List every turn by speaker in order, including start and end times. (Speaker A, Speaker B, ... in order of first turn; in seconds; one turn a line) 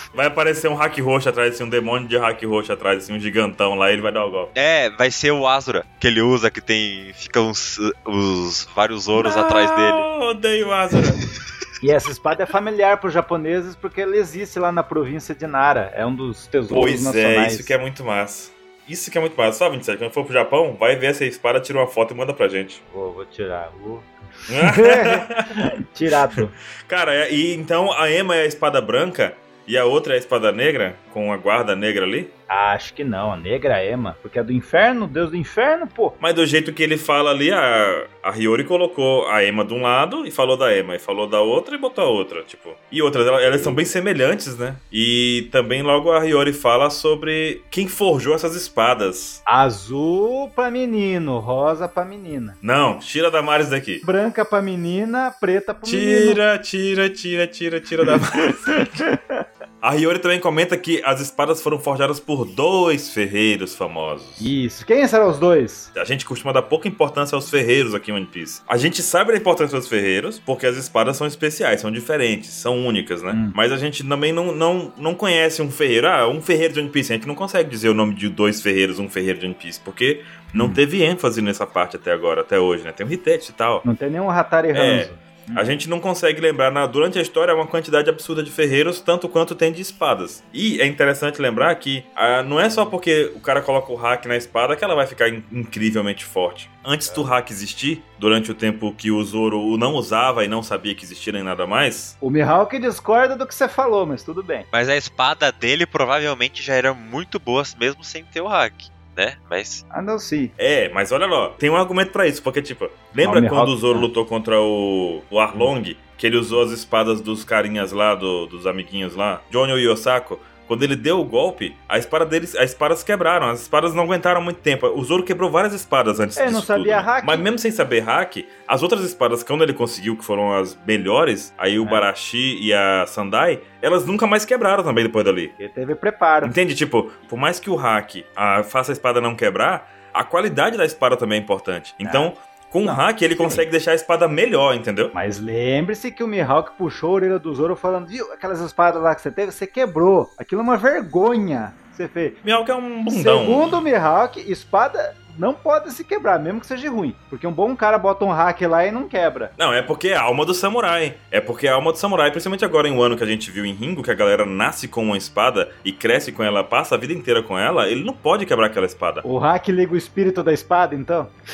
Speaker A: 0.1-4.5
Speaker B: 4.5-10.1
Speaker A: 9.2-11.2
Speaker C: 11.8-17.8
Speaker A: 16.7-22.8
Speaker C: 22.9-26.5
Speaker A: 24.5-25.6
Speaker A: 26.9-32.3
Speaker C: 32.5-36.2
Speaker A: 36.2-49.4
Speaker C: 43.5-43.8
Speaker C: 49.5-52.6
Speaker A: 52.6-54.0
Speaker C: 54.0-56.4
Speaker A: 55.9-59.0
Speaker C: 58.5-59.4
Speaker A: 59.8-64.5
Speaker C: 64.4-65.9
Speaker A: 66.0-83.8
Speaker C: 80.5-80.8
Speaker C: 83.8-85.8
Speaker A: 84.7-102.2
Speaker C: 102.2-104.7
Speaker B: 104.7-109.8
Speaker C: 109.9-110.5
Speaker A: 110.6-135.6
Speaker C: 113.2-114.1
Speaker C: 126.4-127.5
Speaker C: 135.6-136.5
Speaker A: 136.4-145.2
Speaker C: 142.0-142.3
Speaker C: 142.8-143.6
Speaker C: 145.1-152.4
Speaker A: 152.4-153.8
Speaker C: 153.1-159.5
Speaker A: 159.6-169.2
Speaker C: 169.2-171.3